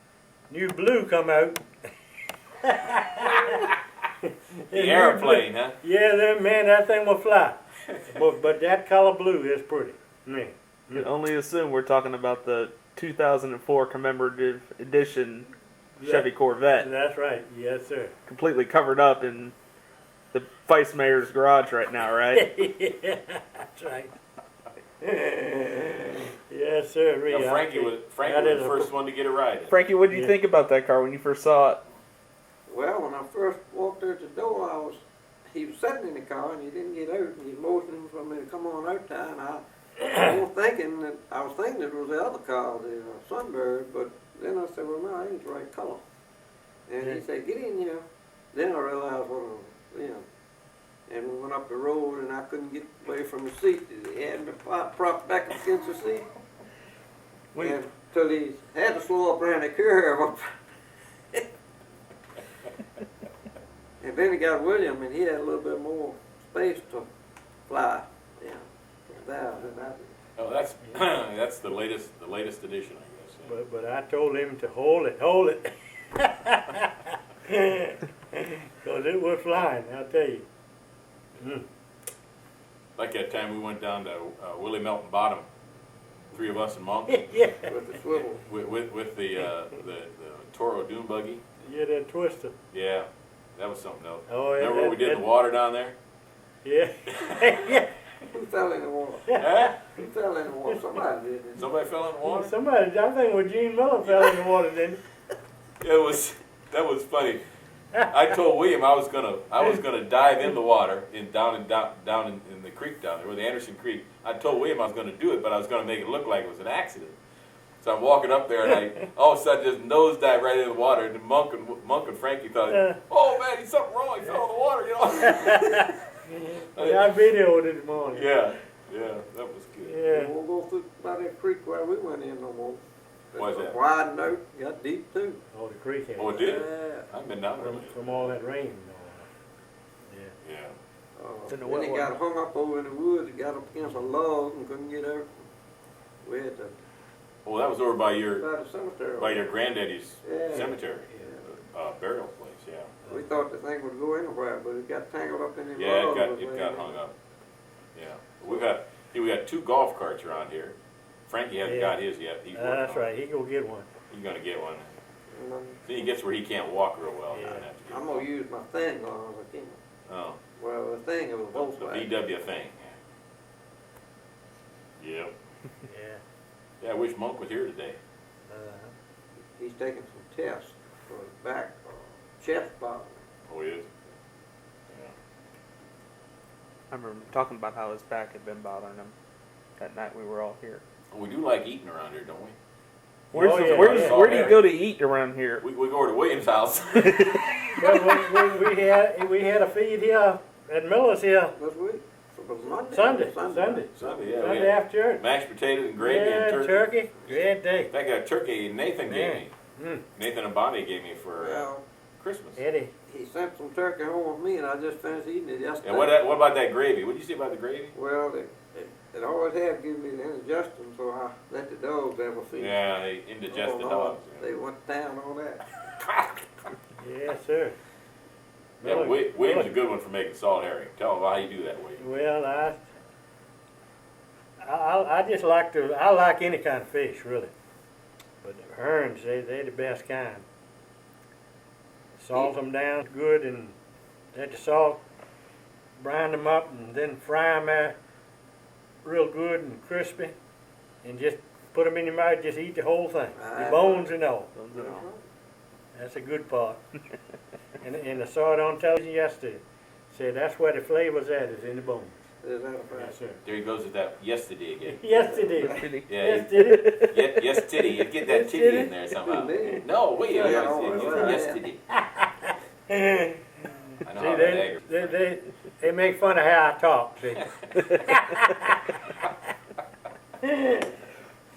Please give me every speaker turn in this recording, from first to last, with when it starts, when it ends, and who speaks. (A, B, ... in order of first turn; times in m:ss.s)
0:00.5-0:01.6 A
0:02.6-0:03.7 A
0:04.2-0:11.1 A
0:04.7-0:05.8 B
0:10.9-0:16.9 C
0:16.0-0:18.1 A
0:18.3-0:19.5 C
0:20.3-0:22.5 C
0:22.3-0:24.1 A
0:25.0-0:28.9 A
0:27.3-0:29.8 B
0:29.7-0:31.8 C
0:30.1-0:30.4 A
0:32.7-0:46.0 D
0:46.9-0:50.2 D
0:51.1-0:56.3 D
0:57.6-1:00.4 D
1:04.0-1:07.1 D
1:07.7-1:10.1 D
1:10.4-1:13.5 B
1:13.4-1:16.9 A
1:17.5-1:20.4 A
1:21.4-1:21.6 A
1:23.0-1:25.5 B
1:26.3-1:27.4 B
1:27.1-1:27.7 A
1:27.7-1:28.4 D
1:28.1-1:31.4 B
1:31.6-1:32.5 A
1:32.7-1:36.0 B
1:34.3-1:35.2 A
1:36.6-1:37.9 A
1:38.3-1:39.3 D
1:39.3-1:39.7 A
1:39.4-1:39.8 B
1:39.9-1:41.7 D
1:41.6-1:42.5 B
1:42.2-1:45.0 A
1:45.8-1:47.4 B
1:48.1-1:57.2 B
1:57.8-2:05.9 B
2:02.7-2:03.0 A
2:05.2-2:05.9 A
2:06.6-2:07.1 B
2:06.8-2:08.3 A
2:08.1-2:10.1 B
2:09.8-2:10.3 A
2:10.1-2:12.8 D
2:13.3-2:15.4 D
2:13.4-2:13.8 B
2:15.5-2:16.5 A
2:16.2-2:18.3 B
2:16.4-2:17.1 D
2:17.6-2:19.3 A
2:20.1-2:20.3 A
2:20.4-2:20.8 B
2:21.2-2:25.3 D
2:21.5-2:22.1 C
2:26.2-2:26.7 D
2:27.4-2:28.5 B
2:28.4-2:29.5 D
2:29.2-2:32.9 B
2:30.2-2:31.4 D
2:33.0-2:33.3 A
2:33.1-2:37.0 D
2:35.8-2:37.1 B
2:37.9-2:40.8 B
2:41.3-2:43.1 B
2:41.6-2:42.0 A
2:42.5-2:43.9 A
2:44.1-2:44.9 B
2:45.3-2:45.8 D
2:45.8-2:48.3 B
2:47.3-2:47.7 A
2:47.9-2:49.8 D
2:50.1-2:50.4 B
2:50.6-2:52.1 D
2:51.5-2:53.0 B
2:55.0-2:55.3 B
2:55.8-2:56.2 A
2:56.8-2:58.0 B
2:58.5-2:58.9 A
2:59.6-3:03.2 D
3:03.5-3:03.9 B
3:06.9-3:09.1 C
3:09.8-3:10.8 C
3:11.1-3:12.5 B
3:13.3-3:14.5 A
3:13.3-3:15.6 C
3:13.4-3:14.7 B
3:15.6-3:17.6 B
3:17.0-3:18.0 C
3:17.8-3:21.6 A
3:21.6-3:24.4 D
3:22.9-3:25.2 A
3:24.0-3:29.5 B
3:26.0-3:27.9 A
3:29.0-3:30.0 A
3:30.1-3:32.6 B
3:31.4-3:31.8 D
3:32.6-3:32.9 A
3:33.1-3:36.1 D
3:35.8-3:37.9 B
3:37.9-3:42.8 D
3:42.5-3:44.5 B
3:43.5-3:45.6 D
3:47.0-3:47.8 A
3:48.8-3:49.7 A
3:48.8-3:52.0 B
3:52.0-3:52.8 A
3:54.6-3:57.5 A
3:58.4-4:00.4 A
4:02.2-4:03.7 A
4:04.3-4:05.0 A
4:06.0-4:08.0 A
4:09.0-4:10.3 A
4:11.0-4:14.5 A
4:13.4-4:14.1 D
4:14.6-4:15.0 C
4:14.7-4:15.2 D
4:15.9-4:16.8 A
4:17.8-4:22.1 A
4:22.4-4:23.2 D
4:23.0-4:23.4 A
4:23.4-4:25.0 B
4:25.0-4:27.1 A
4:25.0-4:25.9 D
4:25.6-4:27.5 C
4:26.1-4:31.8 B
4:28.2-4:28.9 A
4:29.2-4:31.6 D
4:30.5-4:31.4 A
4:32.5-4:33.4 A
4:34.0-4:35.1 B
4:34.1-4:38.8 A
4:40.4-4:40.9 A